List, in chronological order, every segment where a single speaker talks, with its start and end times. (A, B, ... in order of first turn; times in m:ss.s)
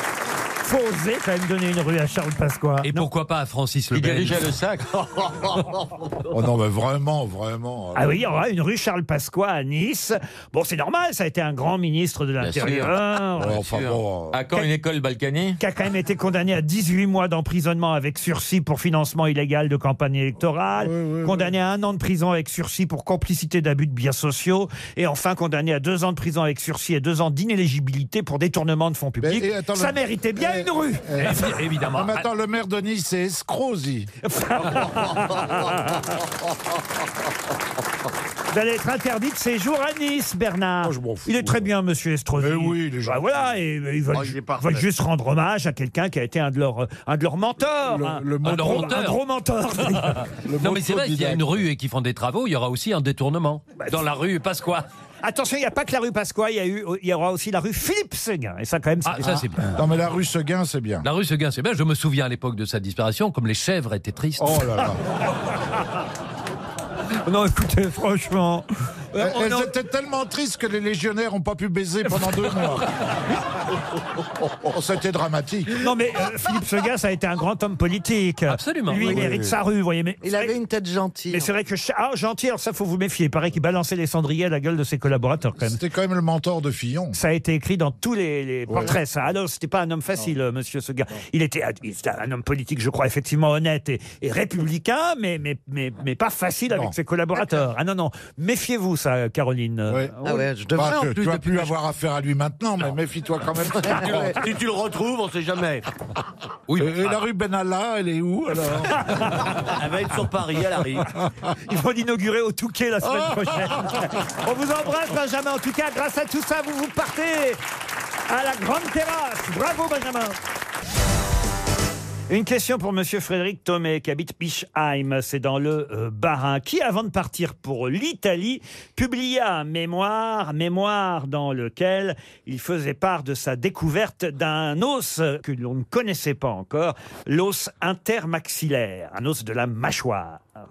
0:00.6-0:03.1 A
0:02.8-0:04.5 B
0:03.9-0:04.9 C
0:06.3-0:08.2 D
0:08.0-0:13.6 A
0:12.4-0:15.6 C
0:13.4-0:14.4 D
0:15.6-0:31.5 A
0:20.8-0:21.5 D
0:29.2-0:34.1 D
0:31.2-0:32.3 B
0:34.2-0:36.1 A
0:38.5-0:50.2 A
0:40.8-0:41.7 D
0:42.4-0:43.5 D
0:44.1-0:44.8 E
0:47.8-0:49.0 D
0:48.4-0:49.2 B
0:50.4-0:51.7 D
0:50.6-0:54.8 B
0:55.2-0:59.5 A
0:59.0-0:59.7 B
0:59.8-1:01.1 D
1:01.0-1:04.8 B
1:04.4-1:05.0 D
1:07.2-1:09.7 A
1:09.2-1:12.9 D
1:14.6-1:15.9 D
1:15.8-1:20.6 A
1:18.5-1:19.4 B
1:19.0-1:19.5 D
1:20.2-1:21.5 F
1:21.3-1:25.8 A
1:25.6-1:27.2 D
1:27.1-1:40.5 A
1:28.7-1:29.0 D
1:40.2-1:41.7 F
1:40.7-1:44.4 D
1:43.9-1:44.4 F
1:43.9-1:45.9 E
1:46.7-1:47.2 B
1:46.8-1:49.5 D
1:49.1-1:49.5 A
1:49.7-1:51.1 E
1:51.7-1:57.6 A
1:53.3-1:53.6 D
1:58.3-2:00.4 A
2:02.3-2:20.5 A